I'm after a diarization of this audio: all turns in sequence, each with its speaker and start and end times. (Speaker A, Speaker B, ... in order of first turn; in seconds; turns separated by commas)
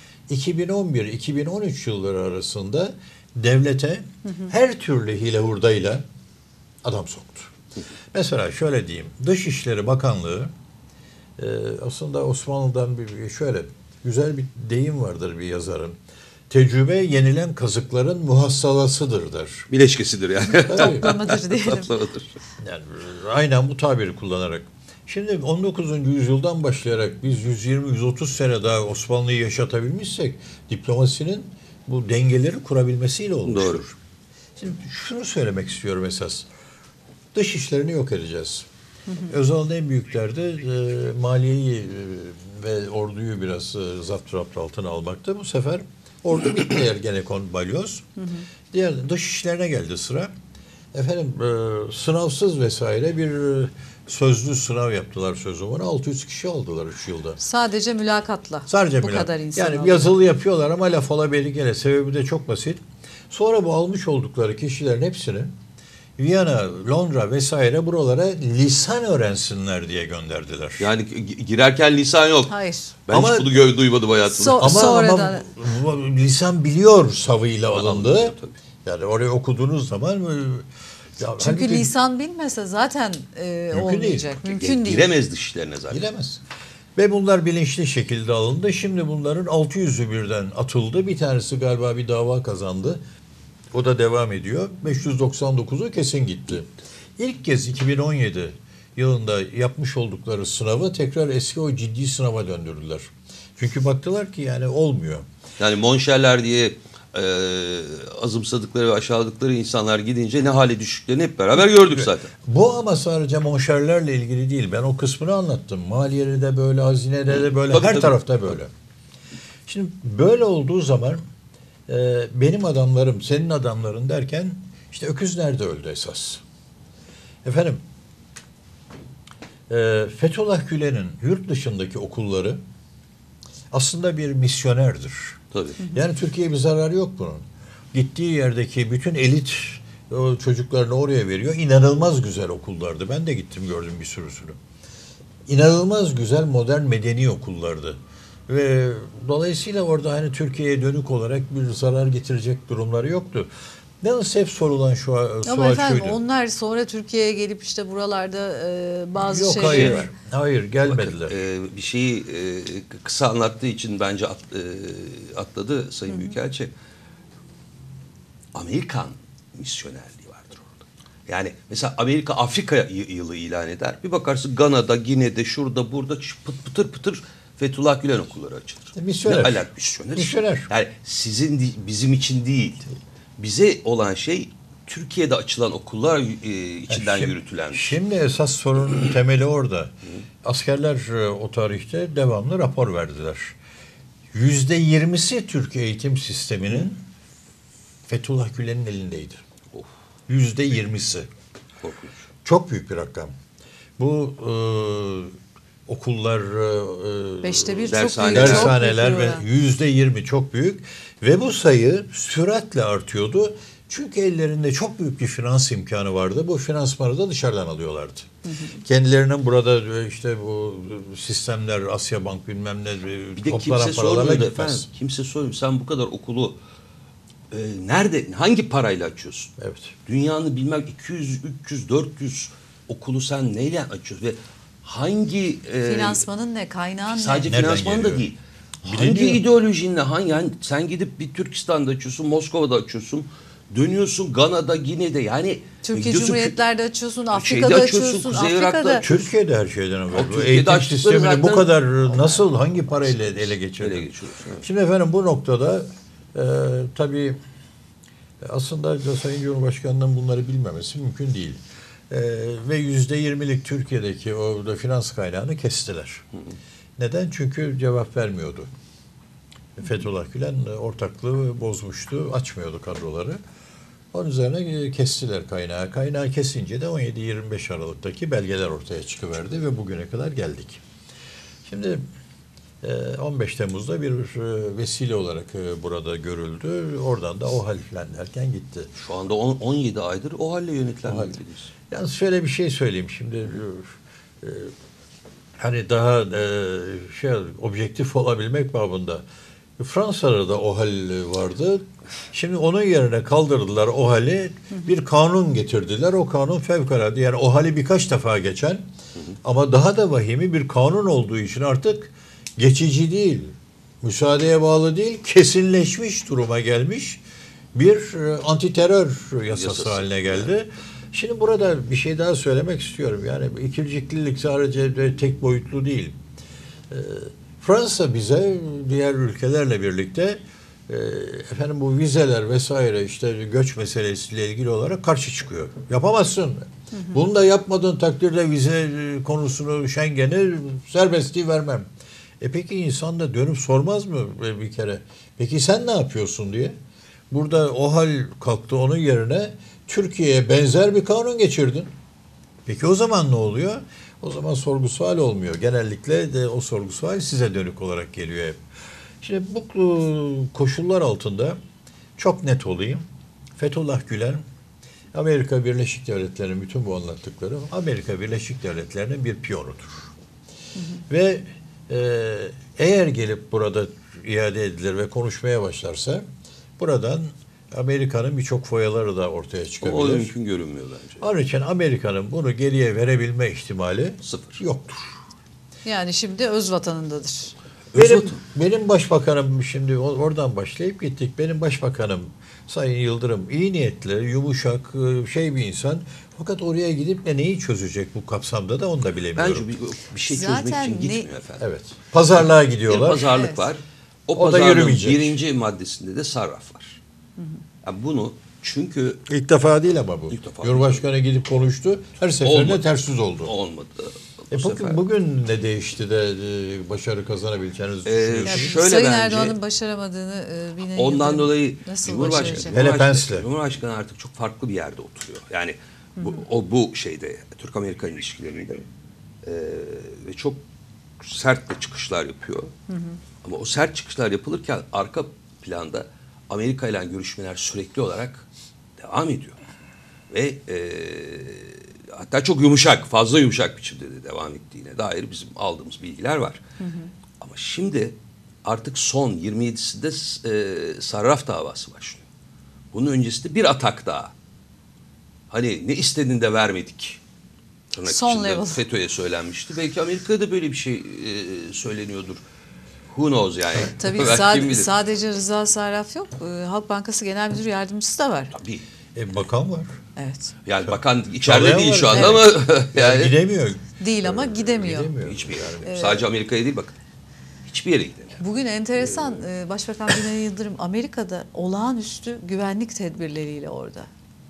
Speaker A: 0.3-6.0, Speaker A: 6.8-7.5, Speaker A: 8.1-10.5, Speaker A: 11.4-16.0, Speaker A: 16.5-19.7, Speaker B: 19.7-22.4, Speaker A: 20.7-21.1, Speaker C: 20.7-21.9, Speaker A: 22.6-34.0, Speaker B: 33.5-33.8, Speaker A: 34.6-36.5, Speaker A: 37.3-38.7, Speaker A: 39.3-48.1, Speaker C: 48.2-48.4, Speaker A: 48.7-50.3, Speaker A: 50.9-57.4, Speaker C: 57.4-60.1, Speaker A: 58.7-65.5, Speaker A: 66.2-70.9, Speaker B: 70.8-72.5, Speaker C: 72.5-72.9, Speaker B: 73.1-74.9, Speaker A: 73.1-73.6, Speaker C: 74.3-75.5, Speaker A: 74.6-80.7, Speaker B: 77.7-78.5, Speaker A: 81.2-81.9, Speaker C: 81.4-85.1, Speaker A: 83.7-84.3, Speaker B: 84.5-86.0, Speaker A: 85.9-86.4, Speaker A: 87.0-93.0, Speaker A: 93.7-105.3, Speaker B: 105.6-112.3, Speaker A: 111.9-118.7, Speaker B: 117.7-118.2, Speaker A: 119.7-121.2, Speaker A: 121.9-126.4, Speaker A: 127.4-127.8, Speaker A: 129.7-132.6, Speaker A: 133.7-144.6, Speaker B: 135.5-135.8, Speaker A: 145.5-153.5, Speaker A: 154.0-156.2, Speaker C: 155.4-160.1, Speaker A: 159.2-161.3, Speaker B: 159.6-160.1, Speaker B: 160.9-166.7, Speaker C: 166.1-166.3, Speaker B: 168.5-188.0, Speaker A: 178.9-180.7, Speaker A: 186.9-193.6, Speaker A: 194.3-197.0, Speaker A: 198.1-199.4, Speaker A: 200.3-201.3, Speaker B: 201.8-202.3, Speaker A: 202.4-203.3, Speaker A: 204.0-205.3, Speaker A: 205.9-218.3, Speaker C: 207.4-209.4, Speaker B: 207.9-208.7, Speaker C: 218.4-218.7, Speaker A: 218.8-224.9, Speaker B: 223.4-226.6, Speaker B: 227.5-229.5, Speaker A: 229.6-229.9, Speaker B: 230.1-236.2, Speaker C: 235.8-237.5, Speaker B: 237.1-246.6, Speaker A: 237.4-238.2, Speaker A: 238.8-239.4, Speaker C: 245.8-249.0, Speaker B: 247.3-249.3, Speaker A: 249.0-254.1, Speaker B: 250.1-252.4, Speaker B: 253.8-254.6, Speaker A: 254.6-257.4, Speaker A: 258.4-266.2, Speaker A: 267.0-268.7, Speaker A: 269.8-273.4, Speaker A: 274.1-280.8, Speaker A: 281.6-282.0, Speaker A: 282.8-288.9, Speaker B: 288.9-291.7, Speaker A: 291.1-291.3, Speaker A: 291.9-294.7, Speaker A: 295.6-299.2, Speaker A: 299.8-308.9, Speaker A: 309.4-317.2, Speaker A: 317.7-326.2, Speaker B: 319.5-320.5, Speaker A: 326.9-341.9, Speaker A: 342.4-346.7, Speaker A: 347.3-351.9, Speaker A: 352.6-358.6, Speaker A: 359.2-361.6, Speaker A: 362.2-363.0, Speaker A: 363.6-364.4, Speaker A: 365.1-370.1, Speaker A: 371.1-376.2, Speaker A: 376.8-380.3, Speaker B: 379.8-381.3, Speaker A: 381.2-385.1, Speaker B: 384.2-384.6, Speaker C: 385.8-387.5, Speaker B: 387.9-388.4, Speaker A: 387.9-399.7, Speaker B: 399.4-401.7, Speaker C: 400.2-401.3, Speaker A: 401.6-403.4, Speaker B: 402.9-407.0, Speaker C: 403.3-403.6, Speaker A: 404.3-405.4, Speaker B: 407.8-409.2, Speaker A: 409.2-413.5, Speaker B: 410.3-411.0, Speaker B: 412.4-412.8, Speaker B: 413.4-415.0, Speaker A: 414.5-418.8, Speaker B: 418.0-419.6, Speaker C: 418.4-422.7, Speaker B: 420.9-428.9, Speaker A: 422.7-423.5, Speaker C: 426.2-426.4, Speaker B: 429.4-430.6, Speaker B: 431.2-432.7, Speaker C: 432.9-433.2, Speaker B: 433.4-438.4, Speaker B: 439.0-439.6, Speaker B: 440.3-446.6, Speaker C: 446.8-447.1, Speaker B: 447.4-452.2, Speaker B: 452.9-454.3, Speaker B: 455.5-457.2, Speaker B: 457.9-462.4, Speaker C: 458.0-458.8, Speaker B: 463.1-464.9, Speaker C: 463.9-468.5, Speaker B: 468.5-468.8, Speaker A: 469.1-469.9, Speaker C: 470.2-470.5, Speaker B: 470.6-473.3, Speaker A: 470.9-475.9, Speaker C: 472.1-472.4, Speaker C: 474.0-475.1, Speaker B: 475.2-476.9, Speaker C: 475.8-476.2, Speaker B: 477.6-478.4, Speaker C: 478.4-484.1